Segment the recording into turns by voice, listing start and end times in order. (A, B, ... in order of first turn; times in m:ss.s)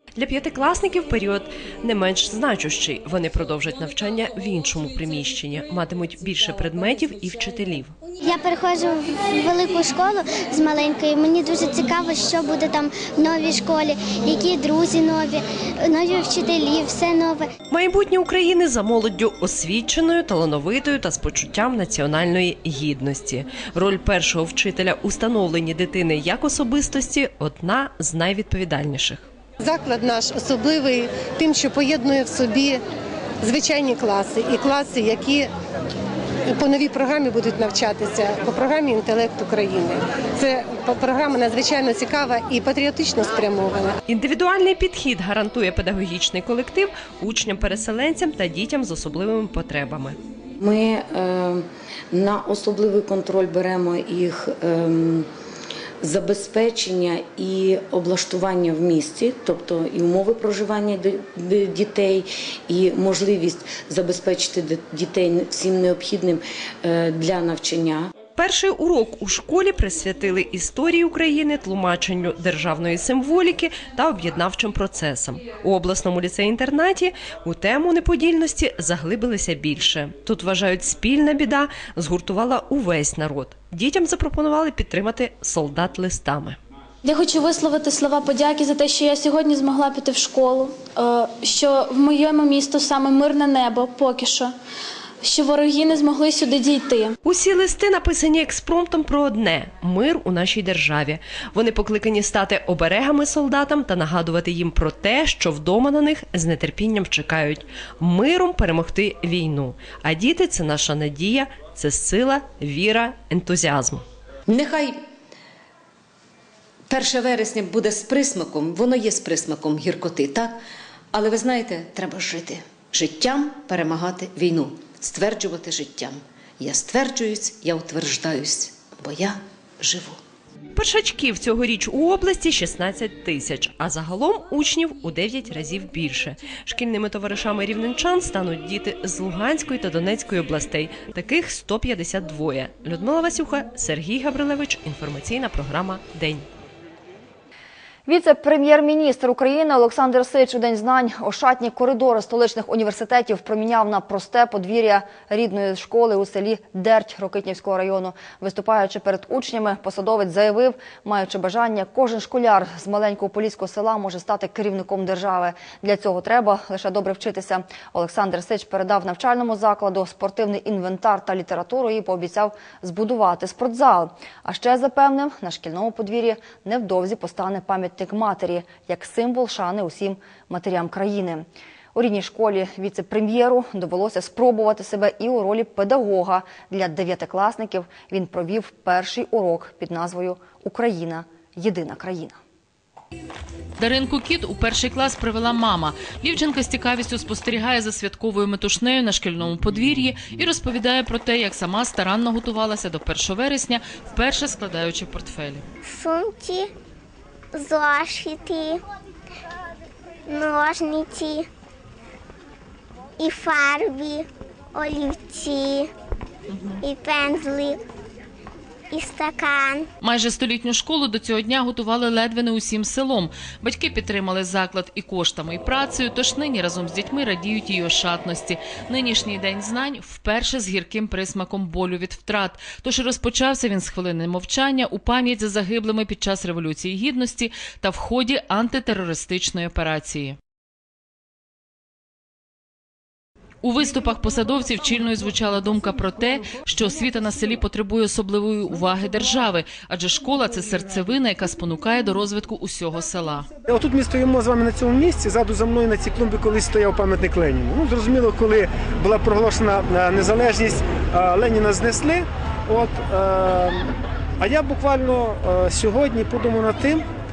0:00.2-0:08.0 A
0:08.2-0:17.5 B
0:17.7-0:29.3 A
0:29.6-0:32.8 C
0:33.4-0:35.5 C
0:36.5-0:44.0 C
0:44.1-0:50.2 A
0:50.6-0:55.3 D
0:56.0-1:08.1 D
1:08.4-1:26.6 A
1:27.0-1:34.6 E
1:35.2-1:37.1 E
1:37.2-1:54.0 A
1:54.5-1:55.0 F
1:56.9-2:00.6 F
2:01.1-2:10.2 F
2:10.8-2:26.5 A
2:28.1-3:12.4 G
3:13.8-3:25.7 H
3:25.8-3:26.7 B
3:27.6-3:28.8 B
3:30.3-3:31.5 B
3:33.2-3:35.9 B
3:36.5-3:36.8 H
3:36.8-3:37.8 B
3:38.9-3:39.9 B
3:40.0-4:00.4 H
4:03.6-4:13.5 H
4:13.7-4:27.0 I